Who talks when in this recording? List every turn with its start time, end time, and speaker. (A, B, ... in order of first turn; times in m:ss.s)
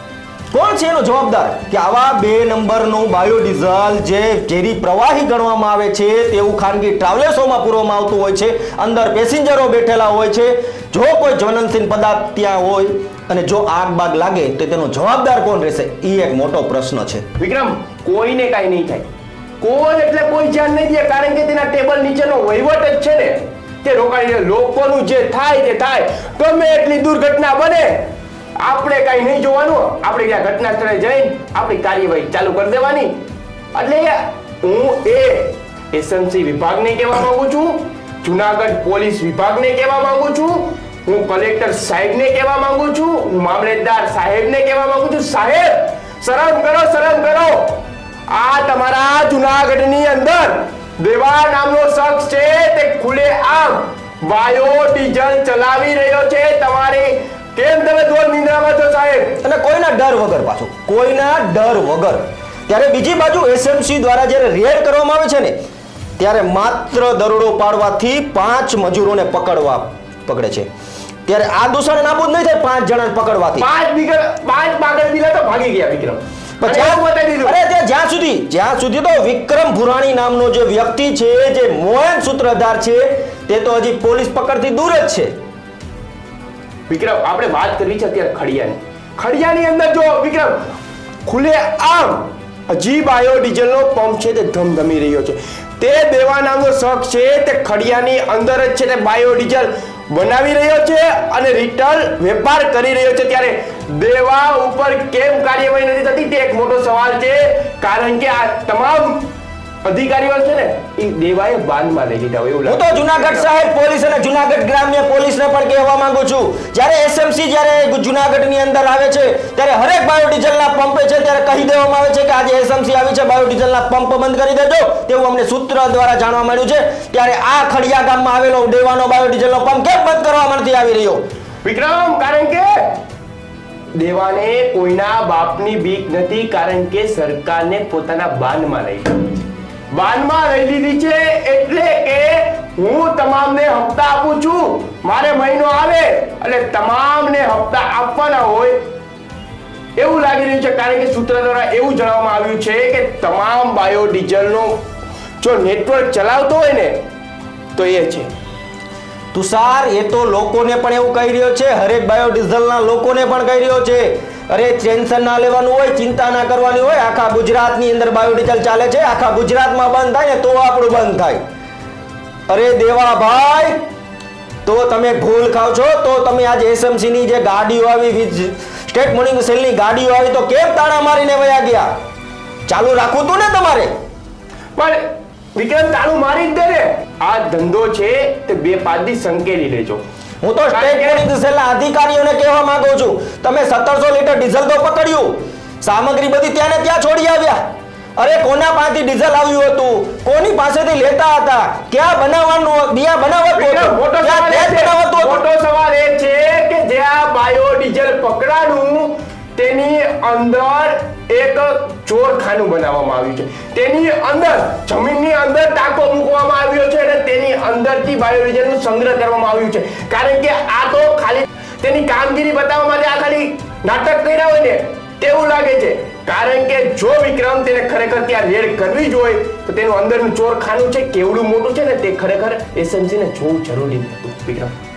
0:00.5-0:17.2 A
0:17.4-0:19.1 B
0:19.6-0:33.2 B
0:33.7-0:59.4 B
0:59.4-1:05.5 A
1:06.2-1:10.7 A
1:11.2-1:13.7 A
1:13.6-1:17.6 B
1:16.6-1:25.3 A
1:26.9-1:30.6 B
1:31.2-1:49.3 B
1:49.8-1:53.5 B
1:52.6-2:11.2 A
2:11.6-2:13.0 B
2:13.9-2:19.3 B
2:19.9-2:28.9 B
2:30.0-2:34.8 B
2:35.4-2:37.0 B
2:37.8-2:38.3 B
2:39.3-2:51.4 A
2:52.5-2:53.8 A
2:54.6-3:01.9 A
3:02.7-3:03.9 A
3:04.8-3:10.0 B
3:10.4-3:17.6 A
3:10.7-3:11.2 B
3:18.2-3:25.4 A
3:23.5-3:54.7 B